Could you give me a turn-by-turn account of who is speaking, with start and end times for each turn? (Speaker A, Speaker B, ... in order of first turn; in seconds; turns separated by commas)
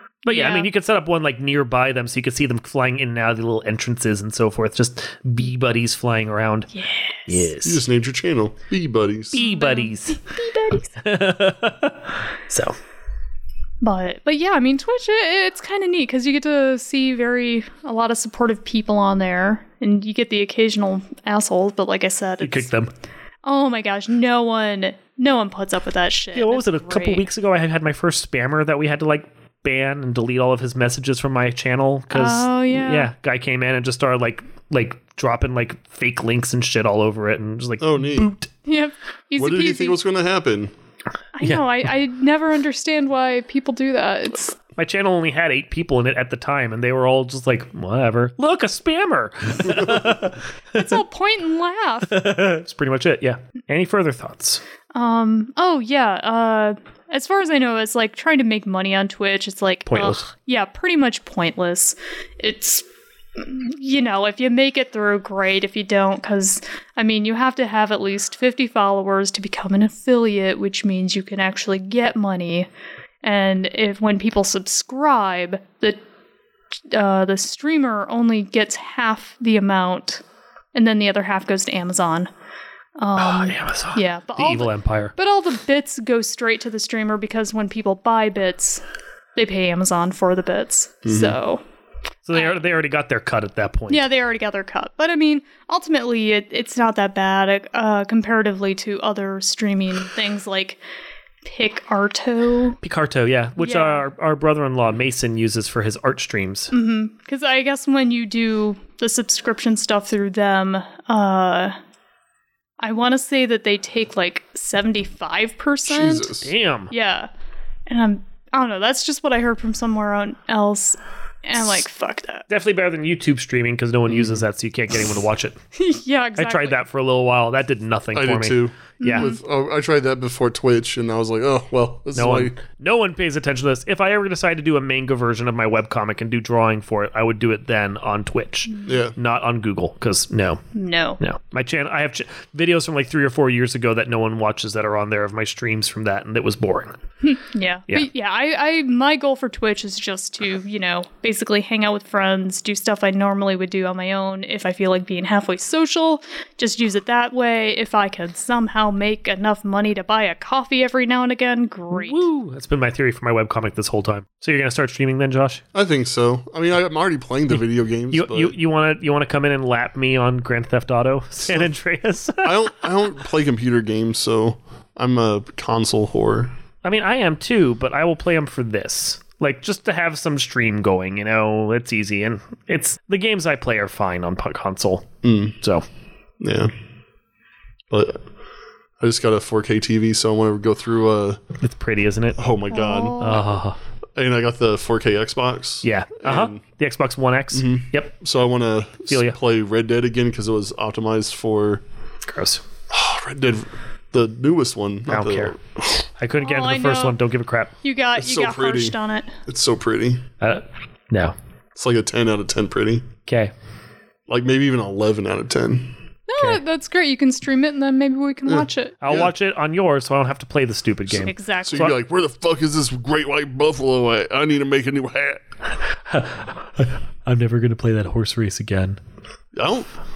Speaker A: 0.2-0.7, Speaker B: 0.3-6.7, Speaker A: 6.7-7.5, Speaker B: 7.3-7.8, Speaker C: 7.6-9.4, Speaker B: 9.3-10.2, Speaker A: 9.4-11.0, Speaker B: 11.0-12.8, Speaker A: 13.8-22.7, Speaker B: 22.4-22.9, Speaker A: 23.4-27.3, Speaker B: 26.3-38.5, Speaker A: 32.1-33.1, Speaker C: 37.8-38.3, Speaker A: 38.7-40.0, Speaker C: 39.4-40.7, Speaker A: 41.4-44.6, Speaker B: 44.8-50.5, Speaker A: 50.7-52.2, Speaker B: 52.1-54.6, Speaker A: 54.9-62.8, Speaker B: 59.9-60.2, Speaker A: 63.4-72.7, Speaker A: 73.2-76.0, Speaker A: 76.9-80.2, Speaker A: 80.7-82.3, Speaker A: 83.0-88.8, Speaker B: 83.2-85.1, Speaker A: 89.4-91.6, Speaker C: 91.0-91.4, Speaker B: 92.2-94.1, Speaker A: 92.3-92.7, Speaker A: 93.9-100.8, Speaker A: 101.4-102.8, Speaker B: 102.8-106.7, Speaker A: 103.6-104.1, Speaker A: 106.7-111.8, Speaker A: 112.8-116.3, Speaker C: 115.9-116.5, Speaker B: 116.4-116.9, Speaker A: 116.9-117.3, Speaker A: 117.9-122.5, Speaker B: 122.5-125.6, Speaker C: 124.1-124.5, Speaker A: 125.8-126.8, Speaker B: 126.4-129.3, Speaker C: 128.2-132.6, Speaker A: 129.0-129.4, Speaker B: 132.1-140.6, Speaker A: 138.7-139.0, Speaker C: 138.9-139.2, Speaker A: 140.8-141.2, Speaker B: 141.2-147.0, Speaker A: 147.2-162.3, Speaker B: 161.9-165.6, Speaker C: 165.7-168.6, Speaker B: 168.1-172.7, Speaker C: 171.4-171.7, Speaker C: 172.4-176.5, Speaker B: 176.8-185.8, Speaker C: 185.2-185.6, Speaker C: 186.4-186.7, Speaker C: 187.9-188.2, Speaker C: 189.0-191.4, Speaker B: 191.6-192.4, Speaker C: 192.4-193.4, Speaker A: 192.7-193.4, Speaker B: 193.2-193.8, Speaker C: 194.2-196.6, Speaker B: 195.8-198.1, Speaker C: 197.5-201.8, Speaker B: 199.1-199.4, Speaker B: 202.2-202.6, Speaker C: 202.9-206.1, Speaker B: 205.1-205.6, Speaker B: 206.2-207.7, Speaker A: 206.4-207.2, Speaker A: 207.8-209.3, Speaker C: 208.2-210.2, Speaker B: 210.4-211.3, Speaker C: 211.8-213.1, Speaker B: 213.3-213.5, Speaker C: 214.3-215.9, Speaker A: 216.3-219.0, Speaker C: 218.4-219.3, Speaker B: 219.0-221.9, Speaker A: 221.1-221.8, Speaker C: 221.6-225.4, Speaker B: 226.1-229.0, Speaker C: 229.6-229.9